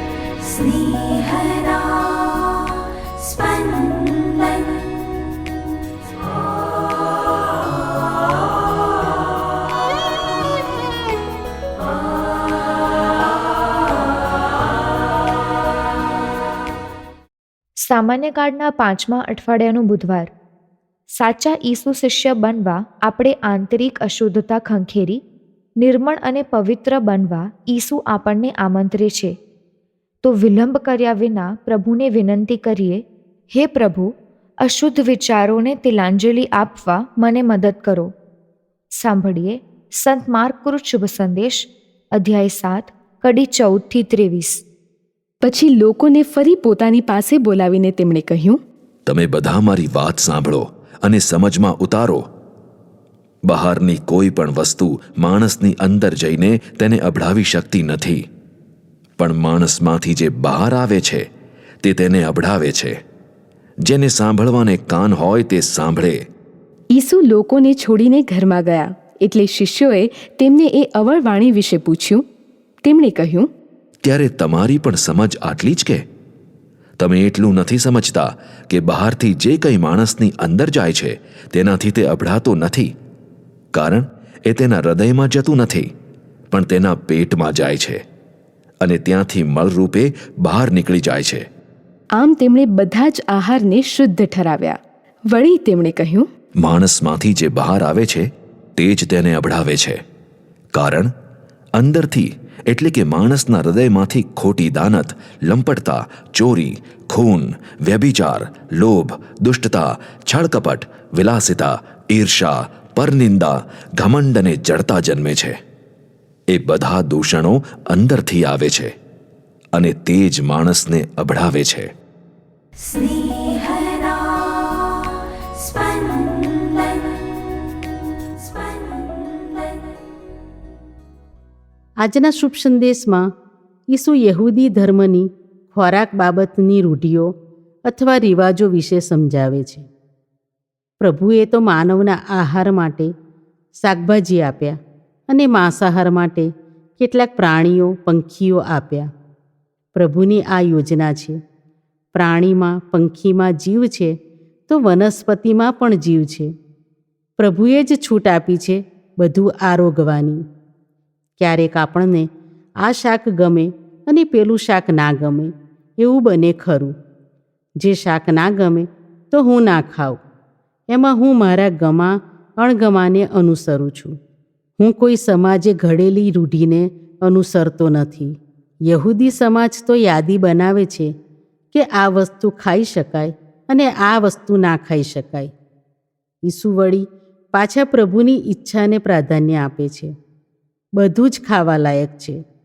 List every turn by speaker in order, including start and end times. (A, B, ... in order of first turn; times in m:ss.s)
0:00.4-0:05.0 A
0:17.8-0:20.3 B
0:21.1-0:25.2 B
0:25.8-0:29.3 B
0:30.2-0:34.1 B
0:34.6-0:38.1 B
0:39.0-0:44.6 B
0:45.4-0:48.6 C
0:49.1-0:52.2 D
0:53.5-0:58.2 D
0:59.2-1:01.2 D
1:01.8-1:03.0 D
1:03.8-1:06.2 D
1:06.9-1:12.2 C
1:12.8-1:13.5 C
1:14.0-1:16.0 D
1:17.0-1:22.9 D
1:23.7-1:25.9 D
1:26.5-1:28.0 D
1:28.8-1:31.4 D
1:32.2-1:36.3 C
1:36.6-1:40.0 D
1:40.7-1:41.1 D
1:41.8-1:55.6 D
1:56.5-1:58.9 D
1:59.7-2:01.9 D
2:02.8-2:04.8 A
2:05.4-2:07.2 A
2:08.4-2:09.6 A
2:12.0-2:13.3 E
2:13.9-2:17.3 E
2:17.9-2:19.8 E
2:21.0-2:23.1 E
2:23.8-2:24.8 E
2:25.3-2:29.1 E
2:29.9-2:31.4 E
2:32.1-2:34.1 E
2:34.7-2:36.5 E
2:37.4-2:40.4 E
2:41.4-2:42.3 E
2:42.8-2:46.9 E
2:47.8-2:50.2 E
2:50.9-2:54.2 E
2:54.8-3:01.1 E
3:01.7-3:05.5 E
3:06.4-3:10.1 E
3:11.0-3:12.4 E